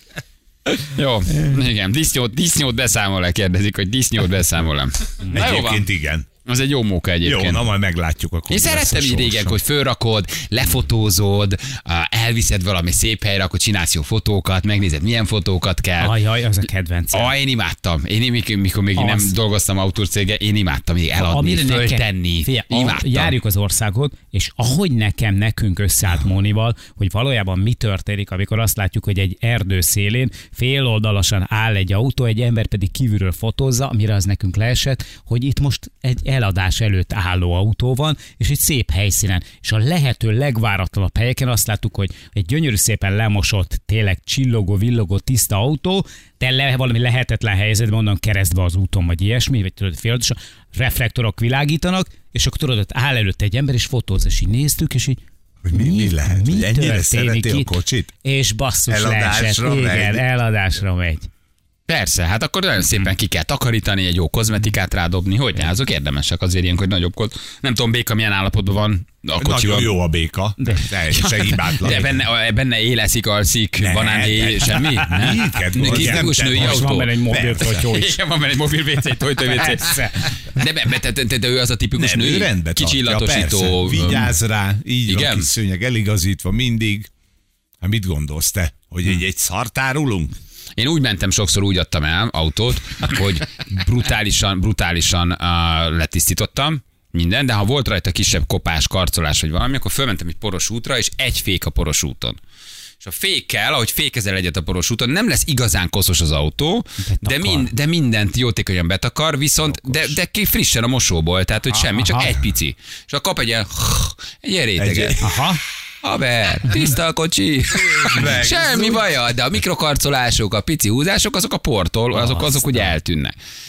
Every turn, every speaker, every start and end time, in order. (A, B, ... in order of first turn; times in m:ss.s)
0:00.6-0:05.9 A
0:05.3-0:06.3 B
0:06.4-0:07.7 A
0:07.2-0:09.6 B
0:08.5-0:16.1 A
0:16.0-0:17.3 C
0:17.1-0:23.4 A
0:19.0-0:19.4 C
0:21.2-0:55.2 C
0:55.6-0:58.1 B
0:55.7-0:57.7 C
0:58.2-1:01.3 C
0:58.9-1:00.2 B
1:01.9-1:09.9 A
1:09.4-1:12.2 B
1:10.6-1:10.9 C
1:11.0-1:24.3 A
1:13.8-1:17.8 B
1:15.7-1:18.2 C
1:19.5-1:20.3 C
1:22.0-1:27.1 B
1:25.0-1:25.5 A
1:27.8-1:30.3 B
1:30.8-1:42.4 A
1:43.0-1:55.2 A
1:47.0-1:47.7 C
1:49.6-1:50.2 B
1:51.8-1:52.4 C
1:54.8-1:55.2 B
1:55.2-1:55.6 C
1:56.0-2:03.3 A
1:57.8-1:59.1 B
2:02.1-2:02.8 C